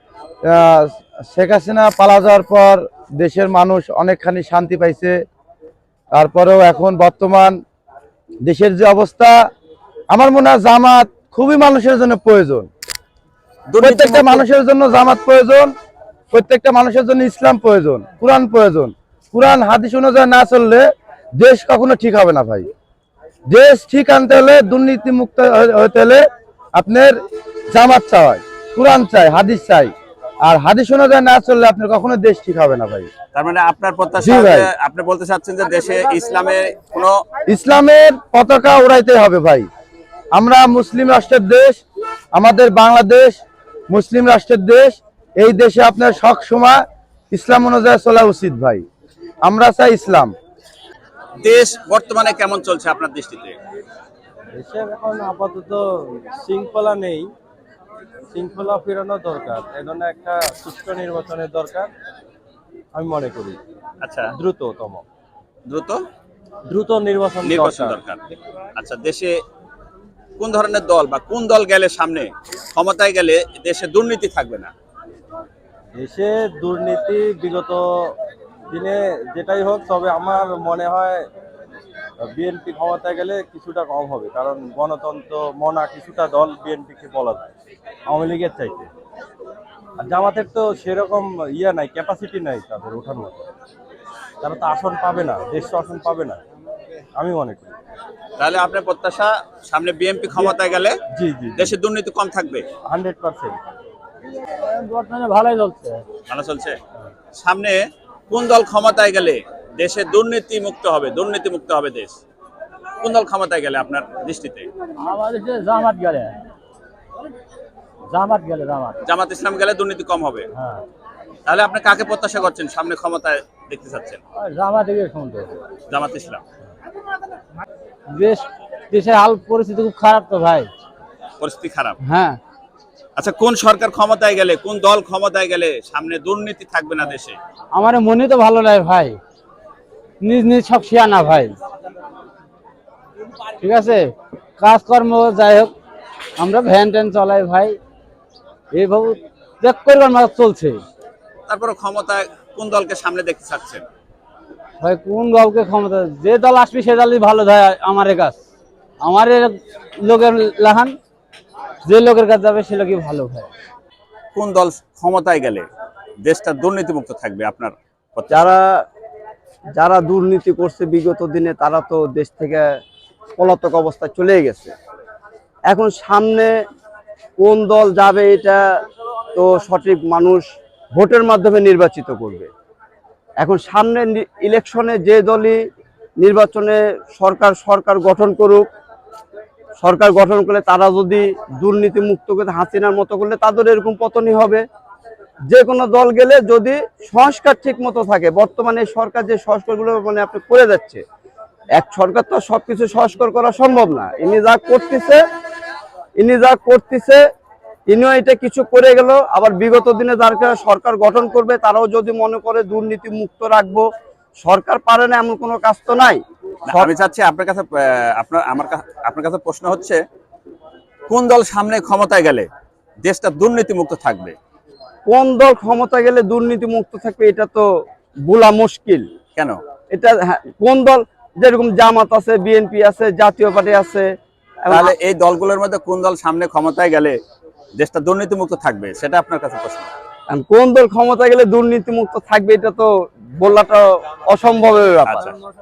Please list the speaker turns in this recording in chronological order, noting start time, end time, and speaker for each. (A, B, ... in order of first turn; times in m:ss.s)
0:00.5-0:05.2 A
0:06.2-0:07.6 A
0:08.4-0:09.4 A
0:10.1-0:12.7 A
0:13.7-0:14.4 B
0:13.8-0:15.7 A
0:16.3-0:22.7 A
0:23.5-0:26.2 A
0:26.8-0:27.2 A
0:27.7-0:29.9 A
0:30.4-0:33.1 A
0:33.3-0:37.2 B
0:34.2-0:34.7 A
0:37.5-0:39.7 A
0:40.3-0:41.8 A
0:42.4-0:48.8 A
0:49.4-0:50.3 A
0:51.4-0:53.6 B
0:54.5-0:57.3 C
0:58.3-1:01.9 C
1:02.9-1:03.6 C
1:04.0-1:04.3 B
1:04.4-1:05.0 C
1:05.7-1:06.0 B
1:06.7-1:08.0 C
1:07.4-1:08.2 B
1:08.8-1:09.4 B
1:10.4-1:14.7 B
1:16.0-1:18.2 C
1:18.7-1:21.3 C
1:22.2-1:27.5 C
1:28.1-1:28.9 C
1:30.0-1:33.4 C
1:34.4-1:36.4 C
1:37.2-1:37.8 C
1:38.4-1:41.0 B
1:41.2-1:41.8 C
1:41.6-1:42.7 B
1:42.8-1:43.6 C
1:44.5-1:46.0 D
1:46.3-1:46.8 B
1:47.4-1:52.2 B
1:53.0-1:54.7 B
1:55.0-1:56.4 D
1:58.1-1:59.0 D
1:59.0-2:00.5 B
2:00.6-2:00.8 D
2:01.5-2:04.2 B
2:04.4-2:05.6 D
2:05.9-2:06.4 B
2:08.1-2:10.7 D
2:11.4-2:12.0 B
2:12.0-2:12.4 D
2:13.2-2:17.4 B
2:17.7-2:19.2 D
2:20.2-2:21.6 D
2:23.6-2:25.7 D
2:26.4-2:27.8 D
2:28.7-2:30.8 D
2:31.5-2:33.8 B
2:34.8-2:38.4 D
2:39.0-2:41.0 D
2:41.8-2:43.5 D
2:44.4-2:45.7 B
2:46.2-2:48.4 B
2:48.3-2:48.8 E
2:49.8-2:52.7 E
2:53.4-2:54.7 E
2:55.7-2:56.5 E
2:57.4-2:58.6 E
2:59.4-3:02.5 E
3:03.4-3:05.6 E
3:06.2-3:08.7 E
3:09.8-3:14.6 E
3:15.5-3:21.0 E
3:21.8-3:25.2 E
3:26.2-3:27.2 E
3:27.9-3:33.8 E
3:34.4-3:36.9 E
3:36.7-3:40.0 B
3:41.1-3:42.5 B
3:43.0-3:44.4 B
3:45.1-3:47.7 E
3:48.2-3:49.1 E
3:49.9-3:54.1 E
3:54.6-3:55.0 E
3:54.7-3:57.2 B
3:57.8-3:59.9 B
4:00.3-4:02.9 E
4:03.4-4:05.3 E
4:05.1-4:05.3 B